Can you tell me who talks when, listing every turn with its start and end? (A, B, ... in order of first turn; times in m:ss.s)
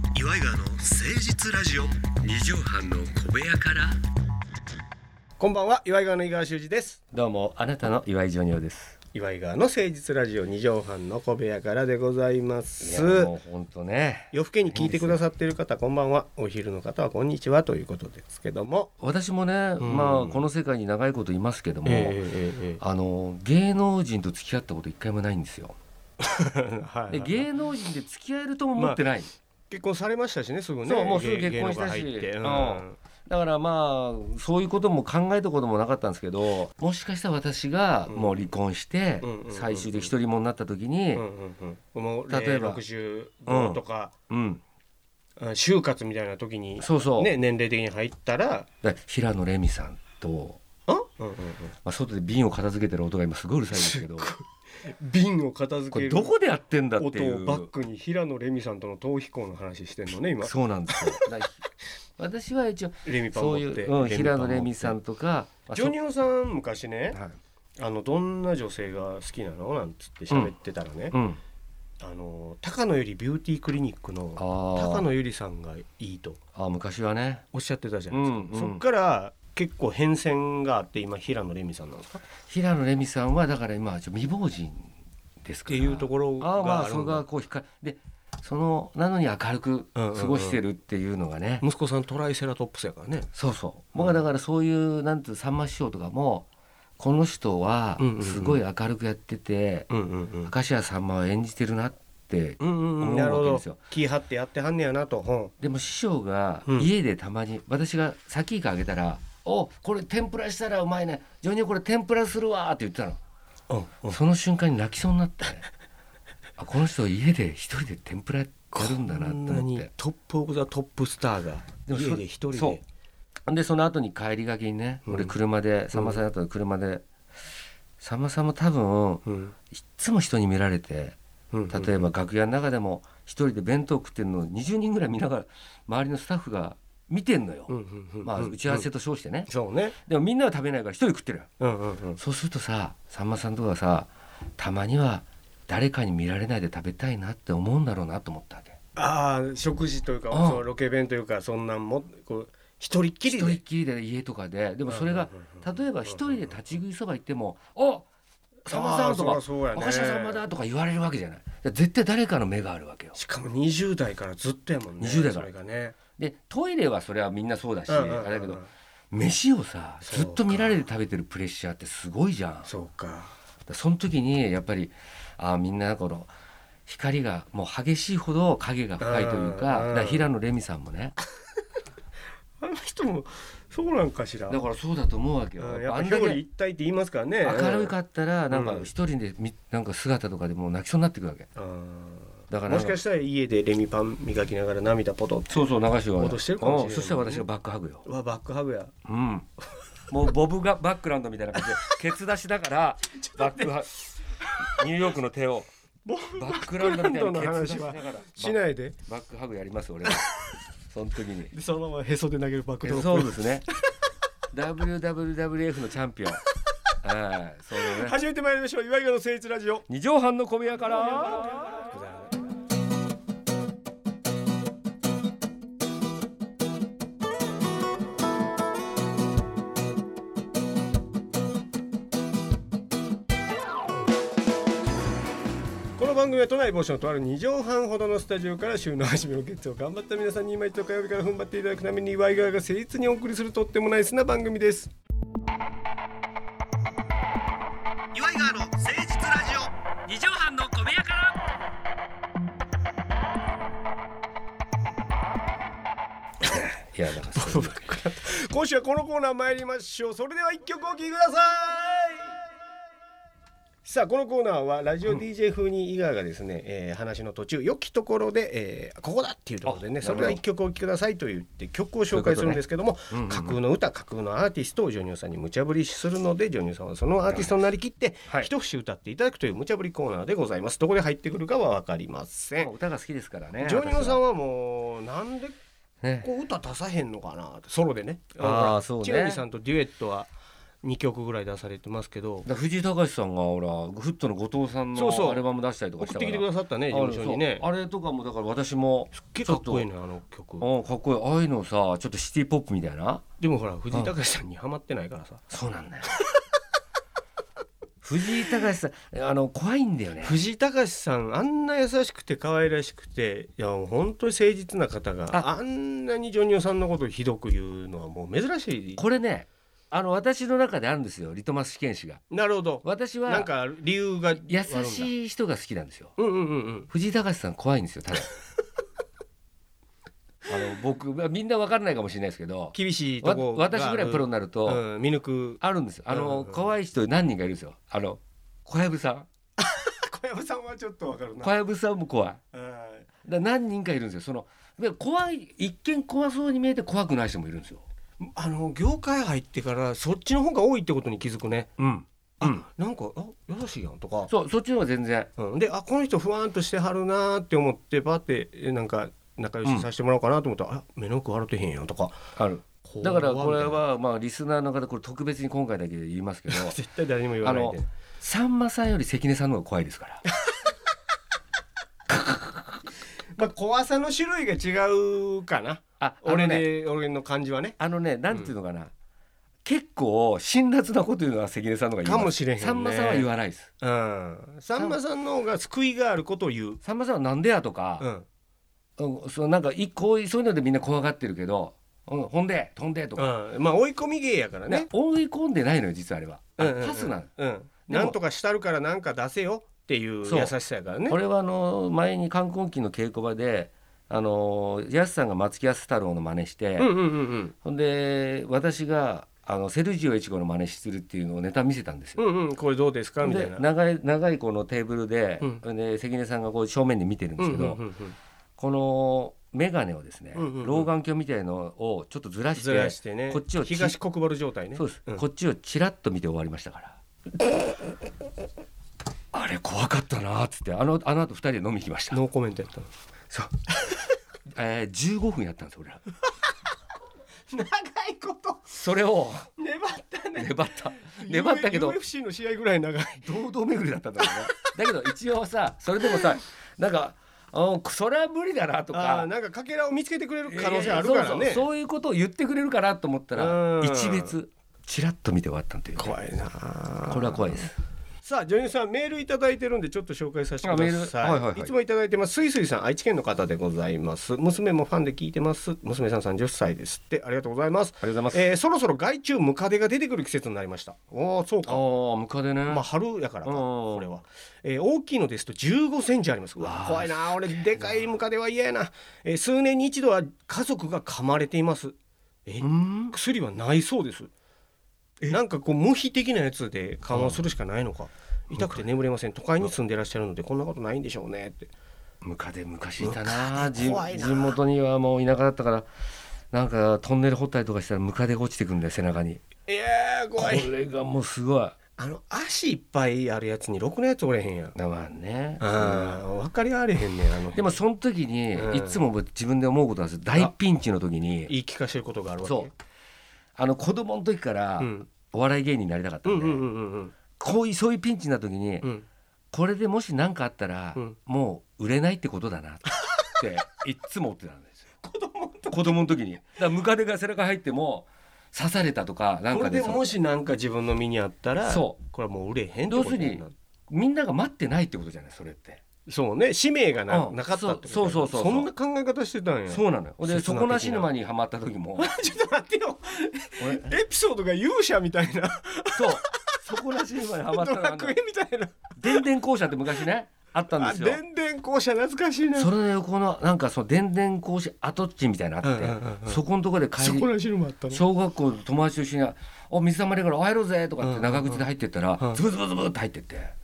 0:00.2-0:01.8 A
0:01.8-0:04.0 B
0:05.4-0:07.0 A
0:07.1-0:09.0 B
0:09.1-0:13.3 A
0:12.8-0:15.2 B
0:14.3-0:18.9 A
0:19.0-0:22.2 B
0:19.8-0:20.4 A
0:21.8-0:22.8 A
0:22.8-0:25.8 B
0:26.2-0:27.5 A
0:27.1-0:29.3 B
0:28.8-0:29.0 A
0:29.7-0:33.0 A
0:30.8-0:41.2 B
0:38.1-0:38.5 A
0:39.2-0:40.1 A
0:41.2-0:44.1 A
0:42.3-0:42.8 B
0:43.5-0:44.6 B
0:45.4-0:48.7 A
0:46.8-0:47.3 B
0:48.8-0:50.6 B
0:50.9-0:51.7 A
0:51.8-0:54.3 B
0:53.7-0:56.3 A
0:55.9-0:57.7 B
0:57.0-1:01.3 A
1:00.4-1:01.7 B
1:02.2-1:05.9 B
1:03.0-1:05.0 A
1:05.7-1:07.2 A
1:07.1-1:07.4 B
1:07.8-1:11.2 A
1:11.1-1:11.4 B
1:12.0-1:16.4 A
1:14.4-1:15.1 B
1:16.6-1:17.4 B
1:17.5-1:22.2 A
1:18.1-1:18.8 B
1:22.5-1:24.9 B
1:25.4-1:31.6 B
1:25.7-1:27.2 A
1:30.0-1:30.6 A
1:31.6-1:33.3 A
1:33.3-1:36.5 B
1:37.0-1:39.9 B
1:38.0-1:38.6 A
1:39.9-1:40.5 A
1:40.5-1:43.8 B
1:42.6-1:45.5 A
1:45.6-1:53.2 B
1:46.7-1:46.9 A
1:53.7-1:54.2 A
1:54.1-1:55.6 B
1:56.6-1:59.9 B
1:58.7-2:02.8 A
2:01.9-2:02.8 B
2:03.5-2:07.0 B
2:05.1-2:05.4 A
2:05.9-2:06.2 A
2:08.0-2:11.2 B
2:09.3-2:09.6 A
2:11.5-2:12.0 A
2:11.7-2:17.7 B
2:17.7-2:18.9 A
2:18.2-2:19.5 B
2:19.5-2:20.0 A
2:20.1-2:21.5 B
2:21.6-2:22.2 A
2:22.2-2:28.8 B
2:29.0-2:33.6 A
2:30.3-2:30.6 B
2:33.2-2:38.1 B
2:34.9-2:36.4 A
2:38.7-2:43.2 B
2:38.7-2:40.4 A
2:43.1-2:46.0 A
2:45.0-2:45.5 B
2:46.2-2:52.7 B
2:47.9-2:48.7 A
2:50.0-2:50.8 A
2:52.6-2:53.3 A
2:53.7-2:56.3 B
2:56.9-3:01.2 B
2:59.0-3:00.3 A
3:02.6-3:04.6 A
3:04.5-3:06.4 B
3:05.6-3:07.9 A
3:07.4-3:11.5 B
3:08.5-3:08.9 A
3:11.6-3:17.5 A
3:12.5-3:13.0 B
3:15.5-3:18.0 B
3:18.0-3:18.9 A
3:19.0-3:19.5 B
3:20.1-3:24.0 B
3:23.2-3:23.7 A
3:24.6-3:25.7 B
3:26.1-3:29.0 A
3:26.4-3:30.3 B
3:30.9-3:31.5 B
3:31.5-3:33.5 A
3:32.8-3:33.7 B
3:34.5-3:36.4 B
3:37.0-3:38.2 B
3:37.8-3:39.8 A
3:39.9-3:41.6 B
3:41.6-3:42.3 A
3:56.0-4:04.9 A
4:08.1-4:09.7 A
4:10.1-4:11.4 B
4:16.4-4:17.8 B
4:17.3-4:22.4 A
4:23.8-4:42.7 A
4:29.7-4:30.4 B
4:32.1-4:33.6 B
4:42.6-4:44.2 B
4:43.6-4:45.6 A
4:46.0-4:46.3 B
4:46.2-4:50.3 A
4:48.4-4:49.4 B
4:50.8-4:52.5 A
4:52.4-4:59.9 B
4:54.9-4:55.4 A
4:56.0-4:57.7 A
4:59.2-5:00.7 A
5:00.6-5:03.2 B
5:03.4-5:05.4 A
5:05.5-5:06.1 B
5:08.0-5:10.4 B
5:10.2-5:19.0 A
5:19.0-5:22.2 B
5:22.3-5:25.1 A
5:22.8-5:23.5 B
5:24.4-5:26.2 B
5:26.2-5:26.9 A
5:26.9-5:28.3 B
5:30.5-5:34.8 B
5:32.7-5:36.7 A
5:35.6-5:39.3 B
5:39.6-5:41.5 A
5:41.4-5:42.4 B
5:42.5-5:43.1 A
5:43.2-5:47.8 B
5:48.2-5:51.7 A
5:51.8-5:52.6 B
5:52.4-5:54.3 A
5:54.3-5:55.3 B
5:55.4-6:02.2 A
6:02.4-6:06.8 B
6:02.8-6:03.8 A
6:06.5-6:07.9 A
6:07.4-6:10.2 B
6:12.1-6:12.8 B
6:13.4-6:17.8 A
6:16.0-6:16.7 B
6:17.8-6:18.9 B
6:19.6-6:23.7 B
6:22.0-6:23.3 A
6:23.8-6:26.8 A
6:26.8-6:28.1 B
6:28.0-6:28.3 A
6:29.0-6:33.3 B
6:33.2-6:34.9 A
6:34.7-6:37.3 B
6:36.6-6:41.2 A
6:37.9-6:38.2 B
6:40.2-6:40.5 B
6:41.1-6:46.9 B
6:46.8-6:47.5 A
6:47.6-6:52.2 B
6:52.2-6:53.6 A
6:53.2-6:57.8 B
6:57.4-6:58.2 A
6:58.6-7:04.0 B
7:00.4-7:00.9 A
7:02.6-7:05.2 A
7:04.8-7:07.0 B
7:09.3-7:12.2 B
7:12.1-7:12.9 A
7:14.5-7:16.0 B
7:17.5-7:18.8 A
7:18.7-7:19.5 B
7:19.6-7:23.3 A
7:20.4-7:22.0 B
7:23.2-7:29.3 B
7:24.2-7:24.7 A
7:28.9-7:31.7 A
7:30.5-7:36.2 B
7:33.4-7:34.4 A
7:36.0-7:37.7 A
7:37.1-7:37.8 B
7:38.2-7:51.8 A
7:40.6-7:41.7 B
7:48.0-7:48.4 B
7:51.6-7:52.9 B
7:52.7-8:04.3 A
7:53.4-7:54.1 B
7:56.6-7:58.1 B
8:02.6-8:03.2 B
8:05.3-8:11.7 A
8:07.1-8:07.4 B
8:08.5-8:08.8 B
8:12.2-8:15.9 B
8:13.0-8:14.6 A
8:16.5-8:19.4 B
8:19.7-8:20.7 A
8:20.4-8:21.8 B
8:22.0-8:24.8 A
8:24.8-8:26.2 B
8:25.6-8:27.8 A
8:27.5-8:31.5 B
8:28.5-8:29.0 A
8:31.5-8:32.7 A
8:32.4-8:32.7 B
8:33.6-8:36.6 B
8:34.8-8:35.1 A
8:36.2-8:37.1 A
8:37.4-8:38.9 B
8:39.5-8:44.8 B
8:45.0-8:46.2 A
8:45.7-8:50.0 B
8:49.5-8:53.5 A
8:51.6-8:52.0 B
8:52.9-8:55.8 B
8:56.1-9:01.1 A
8:57.1-8:58.7 B
8:59.7-9:02.1 B
9:02.0-9:06.6 A
9:03.6-9:04.0 B
9:06.0-9:08.2 B
9:07.5-9:09.3 A
9:09.0-9:11.2 B
9:10.7-9:12.7 A
9:12.6-9:17.3 B
9:15.6-9:16.4 A
9:17.0-9:18.0 A
9:17.9-9:23.5 B
9:21.0-9:21.7 A